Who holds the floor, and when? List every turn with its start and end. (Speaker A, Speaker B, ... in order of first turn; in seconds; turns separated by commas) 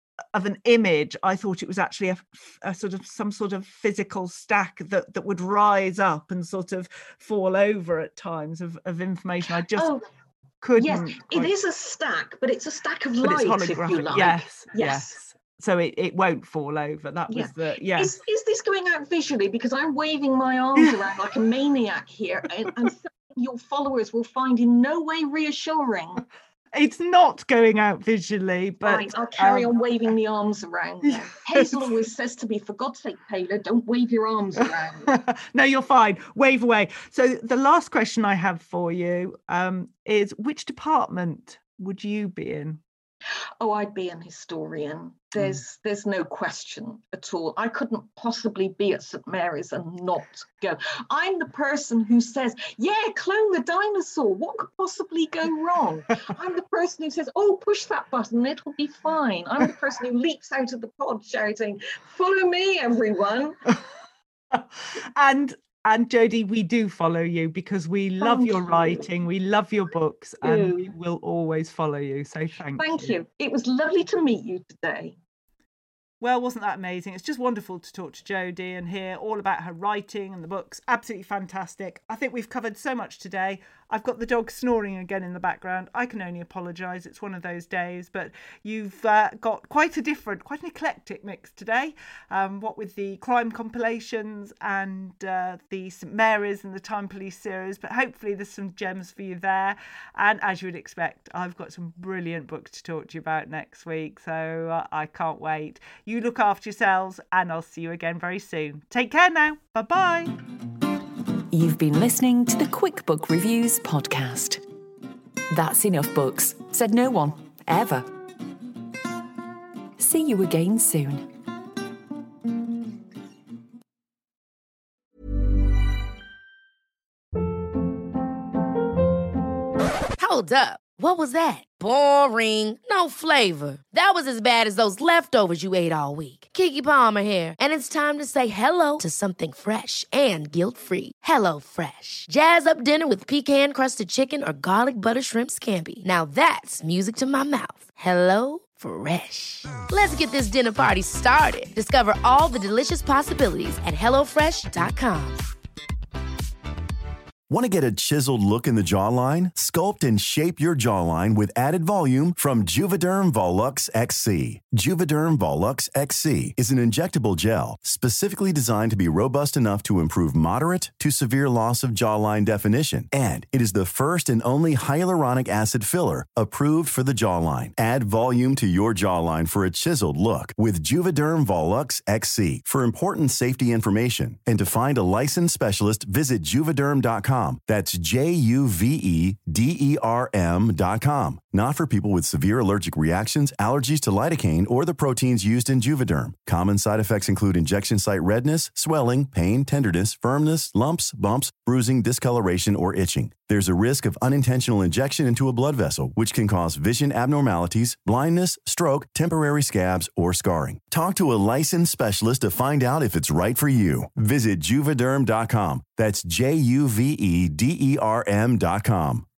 Speaker A: 0.3-9.9, Speaker B: 9.7-10.0, Speaker A: 10.6-11.5, Speaker B: 10.8-15.2, Speaker A: 13.2-18.2, Speaker B: 17.3-26.2, Speaker A: 26.7-29.7, Speaker B: 28.9-35.1, Speaker A: 31.1-31.9, Speaker A: 35.1-42.8, Speaker B: 43.6-63.6, Speaker A: 64.5-73.1, Speaker B: 68.2-69.1, Speaker B: 70.4-70.9, Speaker B: 72.8-75.2, Speaker A: 76.2-110.4, Speaker C: 111.5-114.6, Speaker C: 115.5-118.1, Speaker C: 120.0-121.3, Speaker D: 130.2-155.4, Speaker E: 157.5-219.2